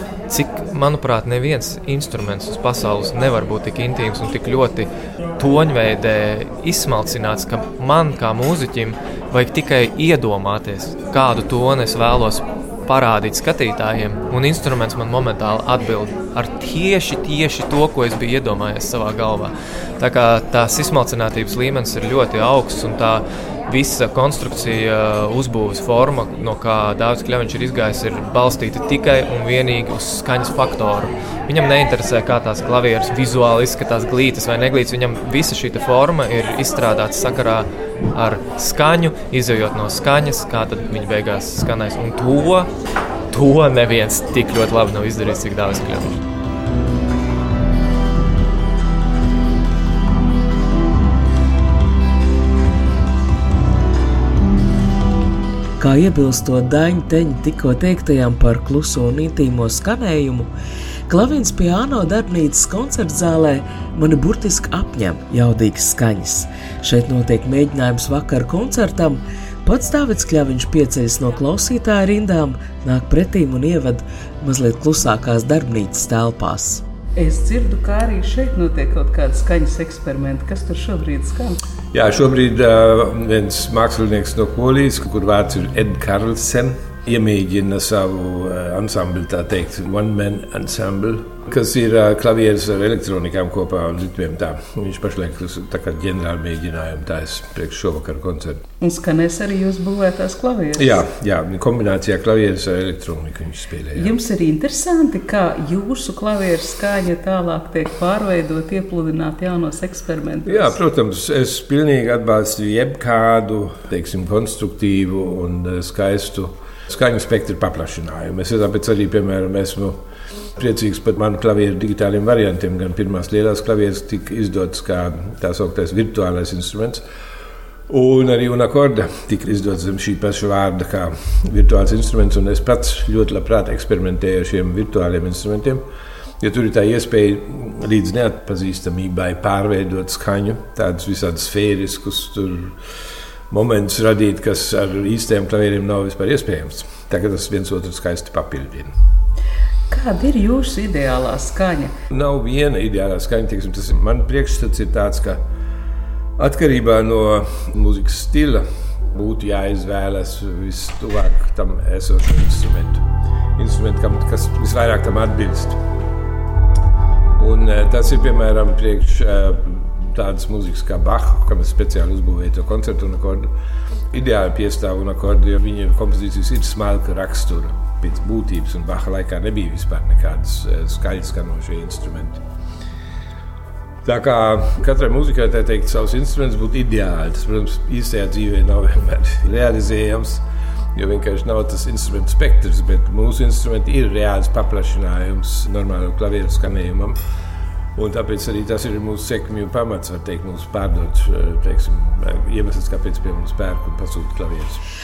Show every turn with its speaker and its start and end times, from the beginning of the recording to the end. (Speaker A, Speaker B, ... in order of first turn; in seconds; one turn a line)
Speaker A: 0.3-42.7
Speaker A: 43.3-46.2
Speaker B: 55.8-60.5
Speaker B: 61.1-76.8
Speaker C: 77.2-81.6
Speaker D: 81.9-98.6
Speaker C: 98.8-101.0
Speaker D: 100.8-104.2
Speaker C: 104.0-110.7
Speaker D: 110.5-120.0
Speaker D: 120.6-127.0
Speaker D: 127.9-135.8
Speaker D: 136.4-142.8
Speaker D: 143.5-148.9
Speaker C: 149.9-151.9
Speaker D: 152.1-155.4
Speaker D: 156.4-163.0
Speaker D: 163.6-165.8
Speaker D: 167.4-173.5
Speaker D: 174.1-182.4
Speaker D: 184.1-190.4
Speaker D: 190.9-197.2
Speaker D: 198.0-204.8